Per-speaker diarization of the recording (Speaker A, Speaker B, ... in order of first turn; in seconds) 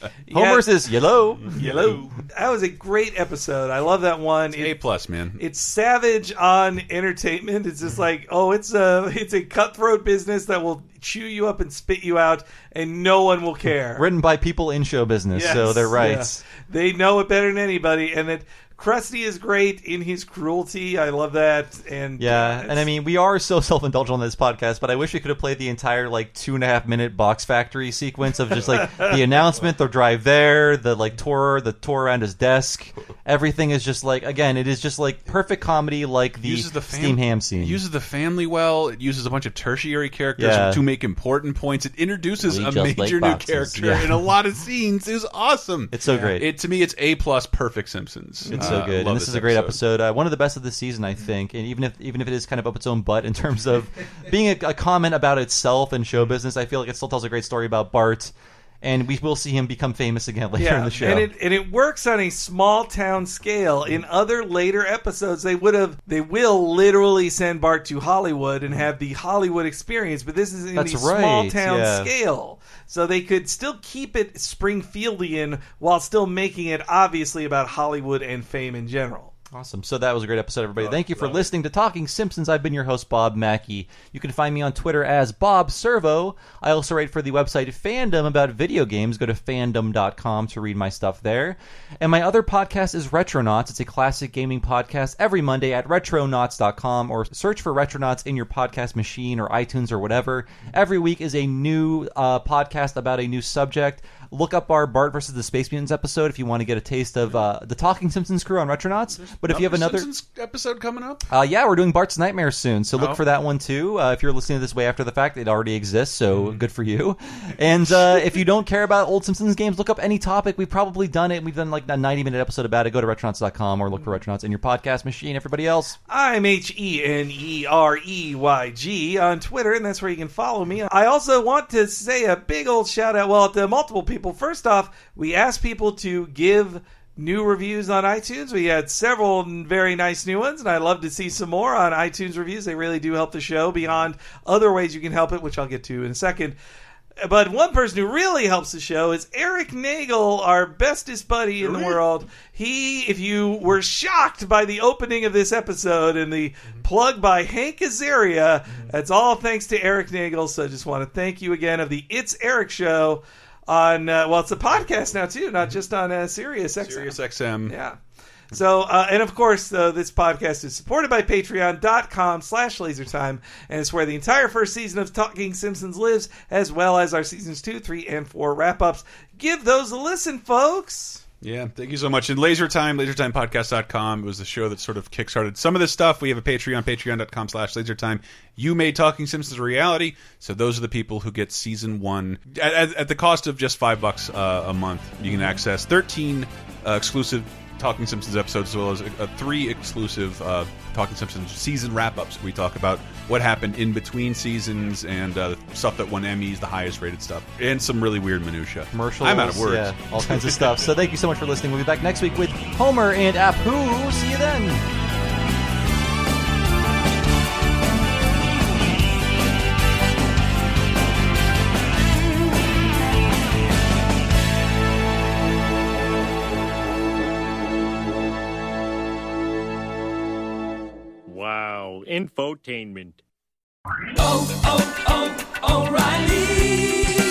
Speaker A: 0.3-0.7, 1.5-4.8, 5.4-14.1, 15.3-22.9, 46.1-46.4, 48.5-48.8, 60.6-79.3, 126.1-146.6, 147.2-168.0, 168.5-181.2
Speaker B: 0.3-1.6, 13.9-16.4, 22.2-37.8, 40.4-40.8, 42.4-44.3, 45.9-46.5, 48.5-61.3, 70.7-72.1, 79.5-110.1, 111.3-126.0, 208.9-214.8
Speaker C: 1.5-2.1, 4.5-5.4, 36.4-49.8, 81.0-81.4, 109.2-111.3, 113.0-113.2, 151.6-152.0, 166.8-167.8, 181.4-210.8
Speaker D: 231.3-233.2, 235.8-236.2